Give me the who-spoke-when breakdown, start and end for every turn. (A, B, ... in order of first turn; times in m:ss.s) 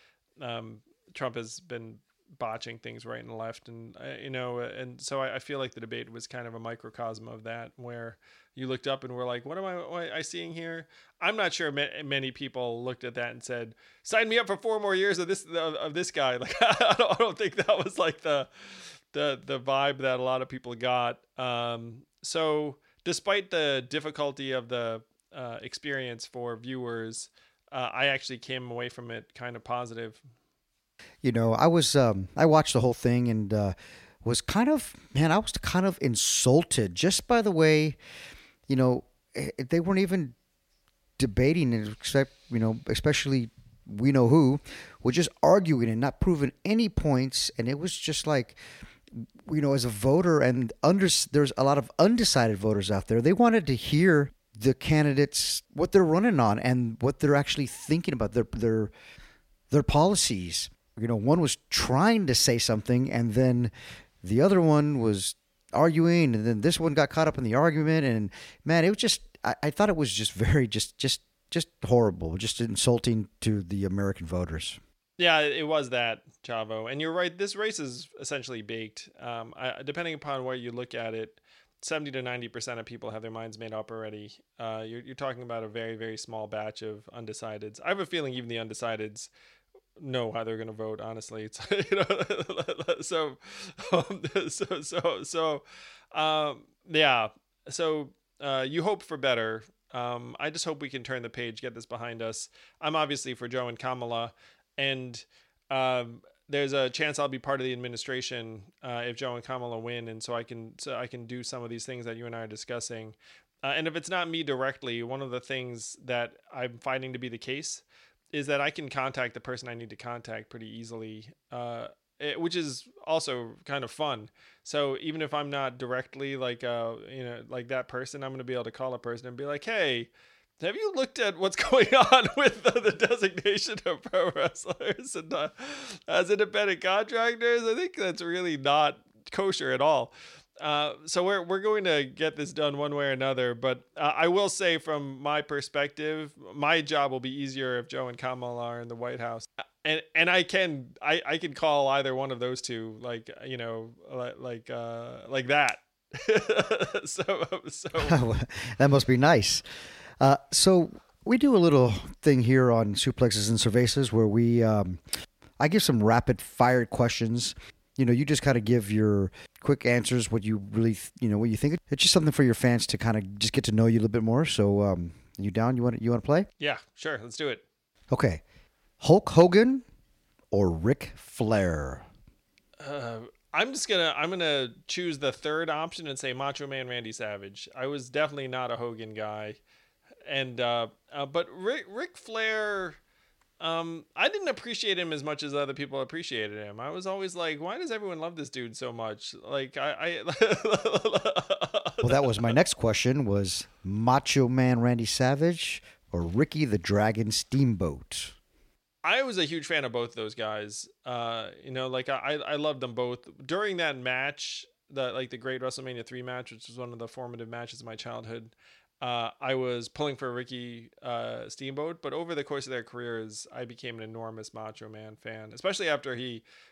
0:00.4-0:30.2 A
0:31.2-0:38.0 B
0:38.7-0:40.3 B
0:41.2-0:48.6 B
0:49.1-0:58.9 B
0:59.7-1:03.7 B
1:04.2-1:14.8 B
1:15.2-1:29.3 A
1:30.0-2:38.2 A
2:38.0-2:39.6 B
2:40.2-2:45.0 B
2:45.6-2:56.5 B
2:56.6-2:57.6 A
2:58.1-2:58.4 B
2:59.0-2:59.8 B
3:00.5-3:02.0 B
3:02.8-3:09.6 A
3:10.3-3:13.0 A
3:13.6-3:22.6 A
3:22.0-3:28.3 B
3:29.0-3:46.4 A